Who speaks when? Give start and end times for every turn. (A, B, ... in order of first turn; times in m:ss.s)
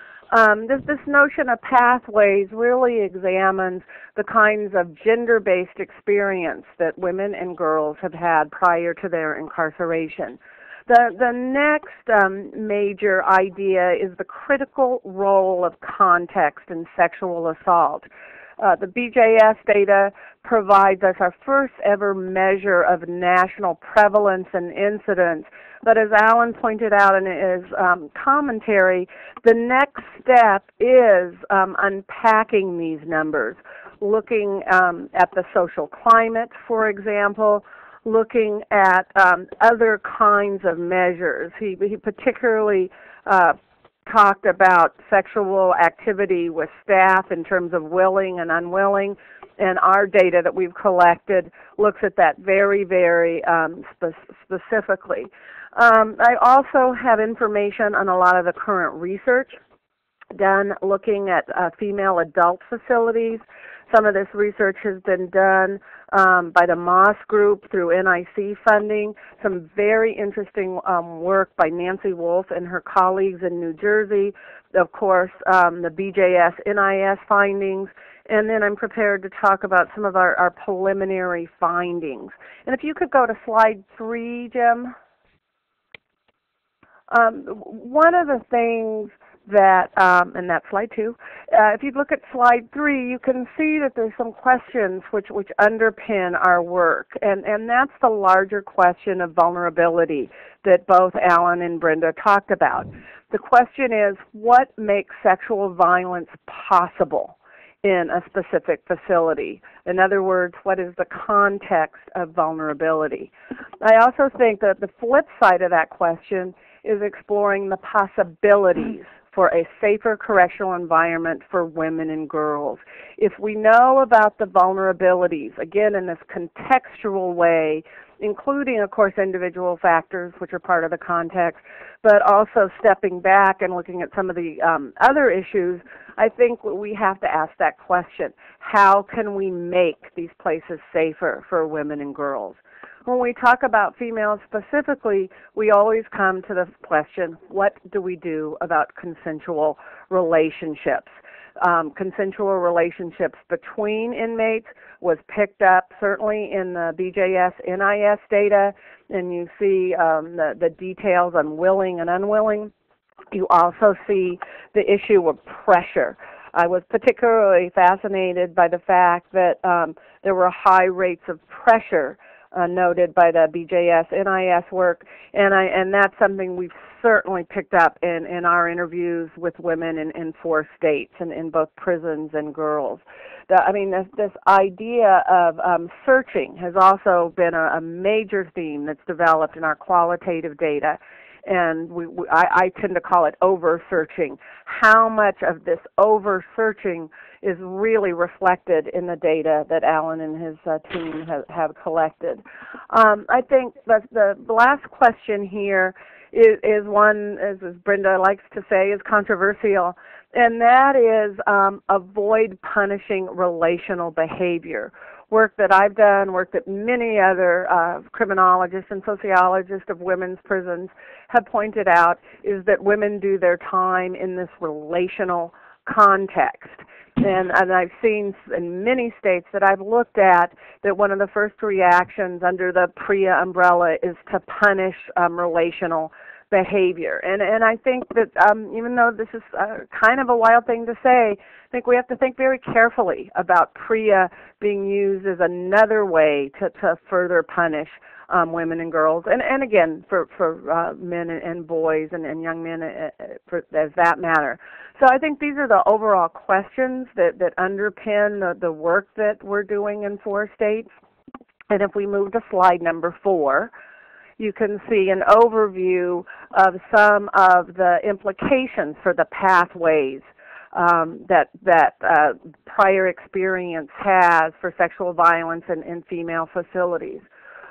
0:00.3-0:18.1 A
0:18.6-0:43.6 A
0:44.1-0:59.6 A
1:00.3-1:24.9 A
1:27.1-2:42.7 A
2:43.3-4:20.9 A
4:21.7-4:23.7 A
4:24.4-4:37.2 A